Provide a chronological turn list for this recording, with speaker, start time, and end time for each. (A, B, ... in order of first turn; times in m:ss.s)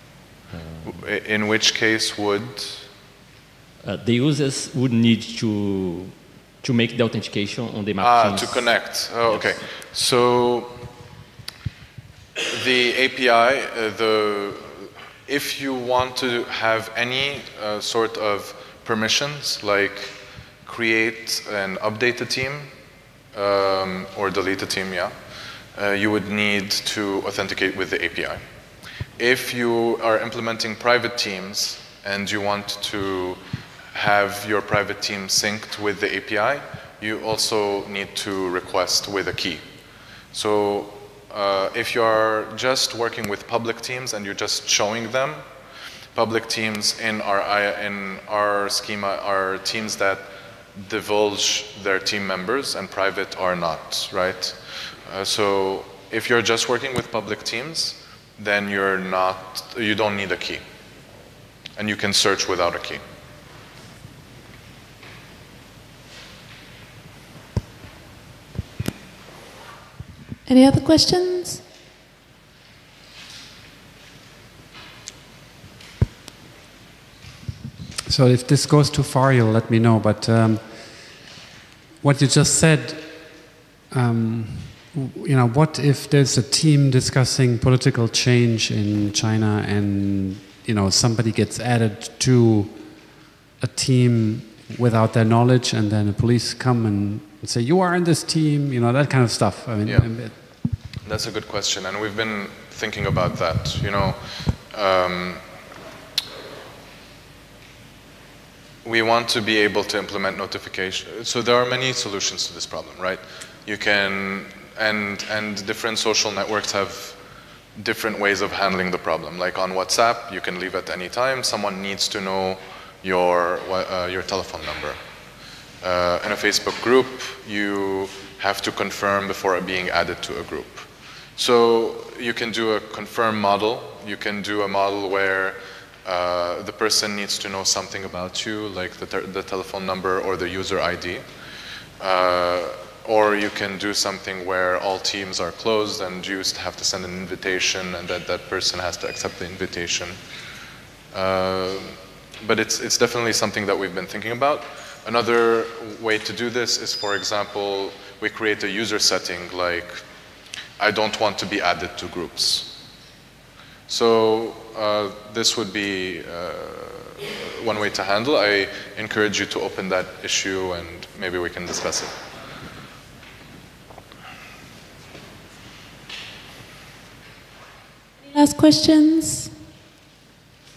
0:00.5-0:00.9 A
0:00.8-0:02.9 B
0:03.8-0:09.5 A
0:08.0-0:10.7 B
0:12.5-0:22.7 B
0:23.3-0:25.1 B
0:25.7-0:28.4 B
0:29.2-0:33.4 B
0:33.9-0:39.6 B
0:40.3-0:45.4 B
0:46.1-1:00.6 B
1:01.8-1:03.0 B
1:10.5-1:11.6 C
1:18.0-1:21.2 D
1:22.0-1:40.3 D
1:41.0-1:45.4 B
1:48.8-1:57.2 B
1:57.8-2:05.0 B
2:05.8-2:21.2 B
2:22.0-2:30.2 B
2:31.1-2:40.0 B
2:40.8-2:42.8 B
2:43.9-2:52.1 B
2:58.3-2:59.5 C